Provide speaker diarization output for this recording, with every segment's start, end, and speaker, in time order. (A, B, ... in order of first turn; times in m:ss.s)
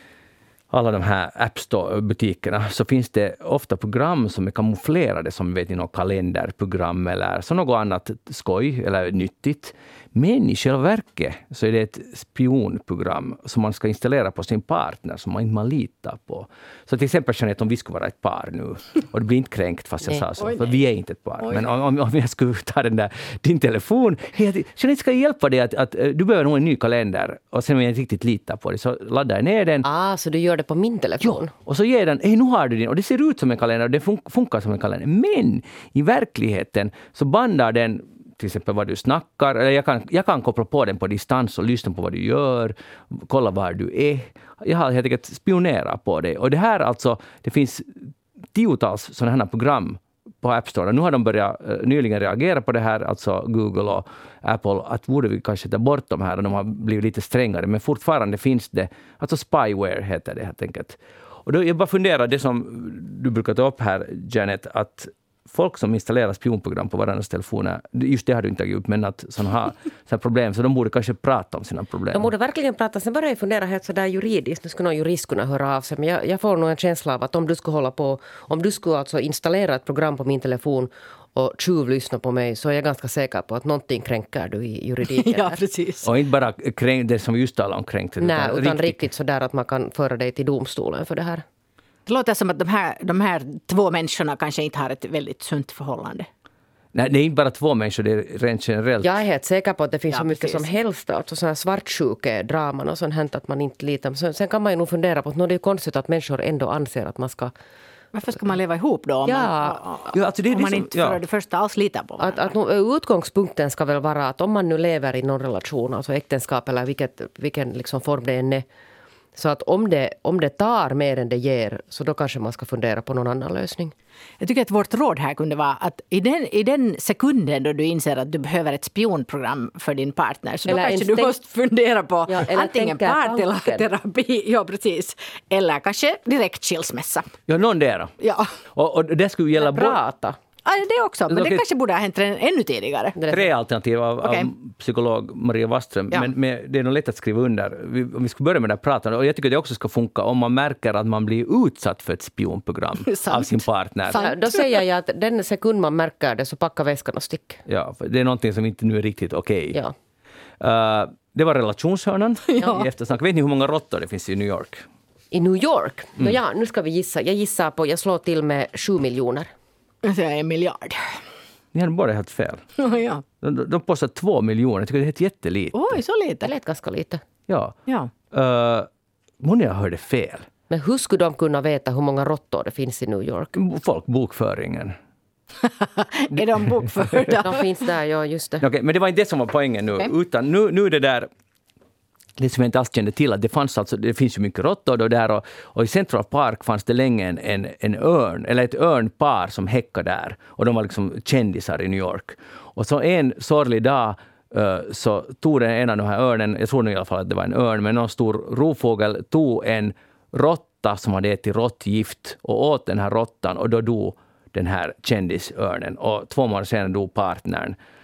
0:00.7-0:29.8 A
0:20.4-0:20.8 B
0:21.4-0:21.7 B
0:29.8-0:31.5 C
0:31.2-1:12.3 A
1:12.1-1:25.6 C
1:25.1-1:26.1 B
1:26.0-1:29.1 A
1:28.2-1:31.4 C
1:32.1-1:36.3 B
1:36.9-1:39.2 A
1:39.0-1:47.5 C
1:40.1-1:40.7 B
1:48.1-1:52.5 B
1:49.2-1:49.8 C
1:50.1-1:51.2 A
1:52.2-1:58.6 C
1:59.3-2:03.9 C
2:04.4-2:17.3 B
2:10.6-2:11.3 C
2:12.3-2:13.9 C
2:17.5-2:18.1 A
2:18.2-2:18.5 B
2:18.7-2:20.0 A
2:19.6-2:20.4 C
2:20.6-2:23.2 B
2:21.3-2:21.6 A
2:23.2-2:23.5 C
2:23.3-2:34.3 A
2:24.2-2:24.5 B
2:33.0-2:34.8 B
2:34.1-2:37.6 C
2:37.7-2:39.8 A
2:40.6-2:44.8 A
2:42.5-2:42.9 B
2:45.3-2:49.5 C
2:50.0-2:51.2 B
2:51.7-2:52.6 A
2:52.8-2:53.2 B
2:53.4-2:56.0 A
2:55.7-2:56.5 B
2:56.4-2:57.2 C
2:57.5-2:57.8 A
2:57.9-2:58.1 B
2:58.3-2:58.9 A
2:59.4-3:00.5 A
3:00.7-3:03.6 C
3:03.5-3:04.9 A
3:05.6-3:07.7 B
3:06.3-3:07.3 A
3:07.4-3:08.6 C
3:08.6-3:11.3 A
3:12.4-3:37.8 A